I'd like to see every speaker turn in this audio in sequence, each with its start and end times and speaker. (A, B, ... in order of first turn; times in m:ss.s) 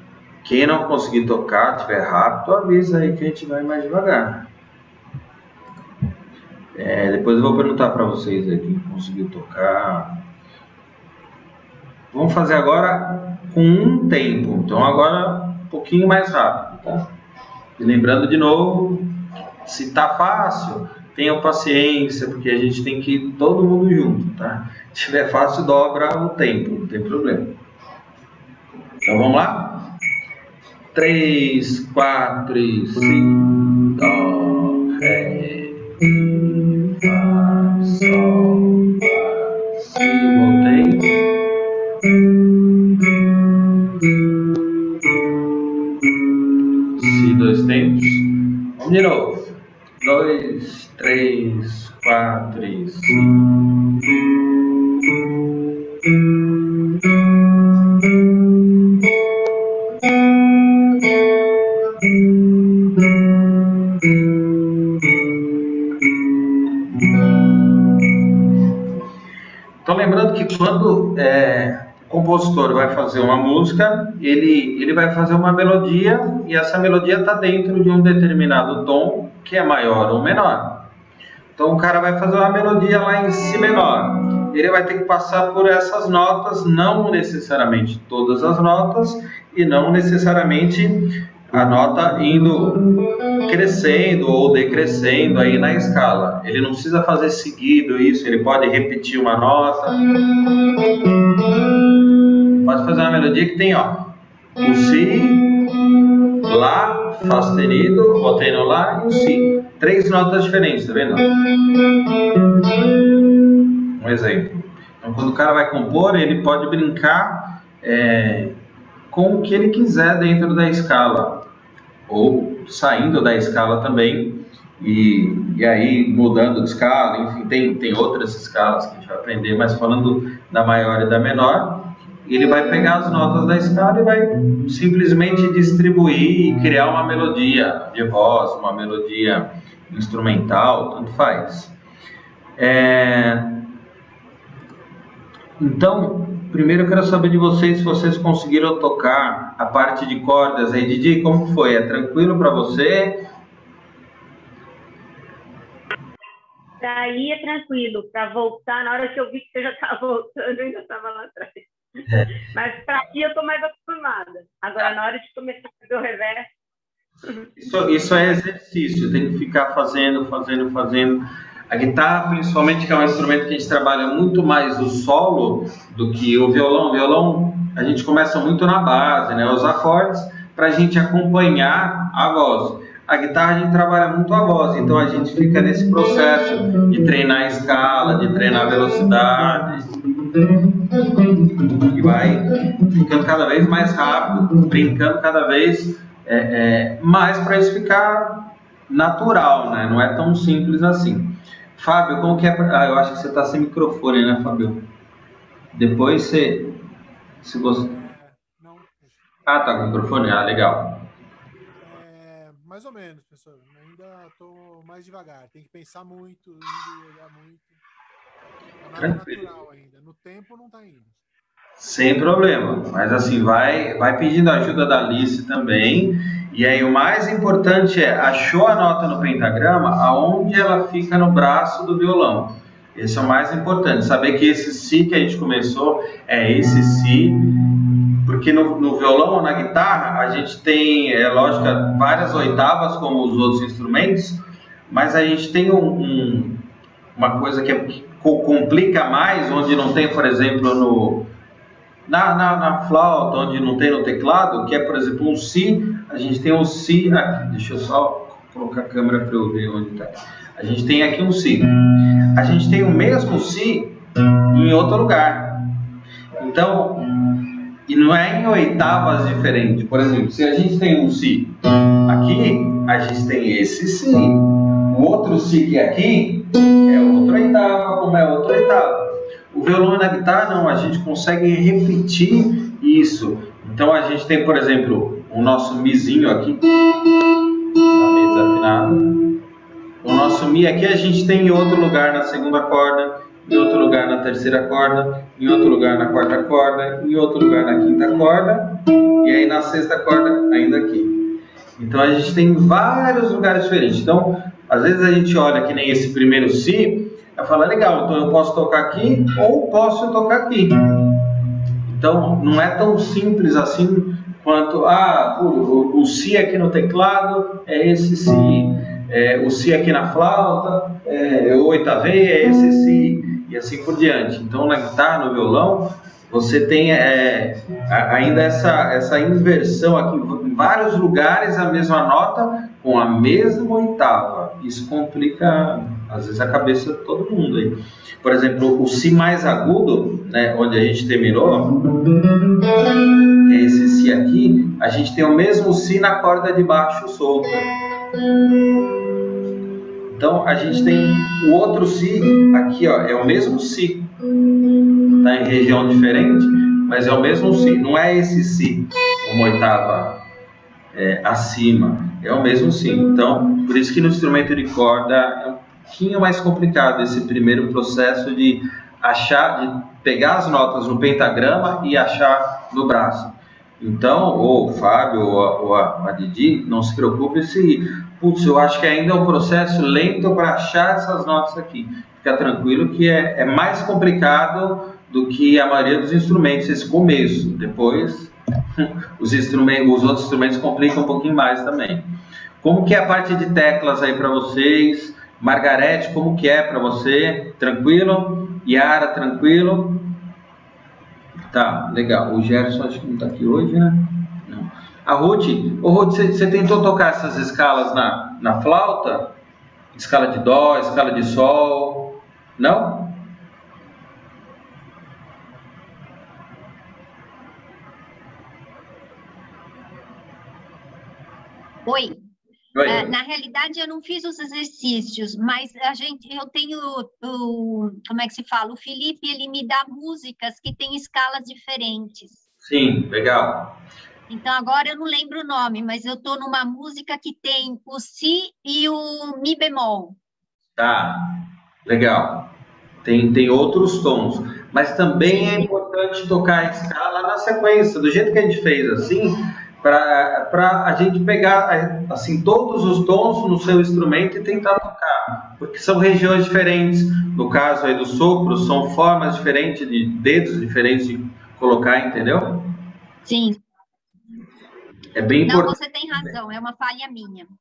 0:00.4-0:04.5 A
0:06.7-0:10.2 A
0:12.1-0:17.1 A
0:17.8-0:19.1 A
0:19.6-0:27.5 A
0:29.0-0:29.9 A
0:30.9-0:41.2 A
0:47.0-0:53.5 A
1:09.8-1:20.9 A
1:21.6-1:32.8 A
1:33.4-1:40.1 A
1:42.6-1:45.6 A
1:46.4-1:51.3 A
1:54.0-1:58.6 A
1:59.1-2:01.4 A
2:02.1-2:21.7 A
2:22.6-2:23.6 A
2:25.6-2:33.2 A
2:36.8-2:41.7 B
2:42.1-2:42.4 A
2:42.4-2:46.5 B
2:47.2-2:47.5 B
2:47.6-3:10.0 A
3:11.8-3:24.8 A
3:25.7-3:26.8 A
3:27.4-3:27.9 A
3:27.8-3:30.4 C
3:29.5-3:31.0 A
3:31.8-3:37.8 C
3:38.8-3:41.2 C
3:39.0-3:39.5 A
3:41.8-3:57.6 A
3:58.2-4:06.6 A
4:07.2-4:11.2 A
4:12.1-4:21.8 A
4:22.3-4:24.0 A
4:24.5-4:25.6 A
4:26.4-4:27.3 A
4:27.9-4:31.5 A
4:32.1-4:46.7 A
4:47.9-4:49.2 A
4:50.0-5:01.2 A
5:01.8-5:10.8 A
5:11.9-5:41.8 A
5:43.4-5:47.7 A
5:50.1-5:54.1 A
5:55.2-6:00.2 A
6:00.9-6:32.1 A
6:32.6-6:40.1 A
6:41.5-6:49.3 A
6:49.9-6:53.2 A
7:01.9-7:02.2 D
7:02.7-7:03.1 A
7:02.9-7:12.4 D
7:12.6-7:13.8 A
7:14.3-7:20.2 D
7:20.8-7:21.2 A
7:21.8-7:22.5 A
7:23.0-7:42.7 A
7:43.2-7:43.6 D
7:45.2-7:45.8 A
7:45.5-7:47.5 D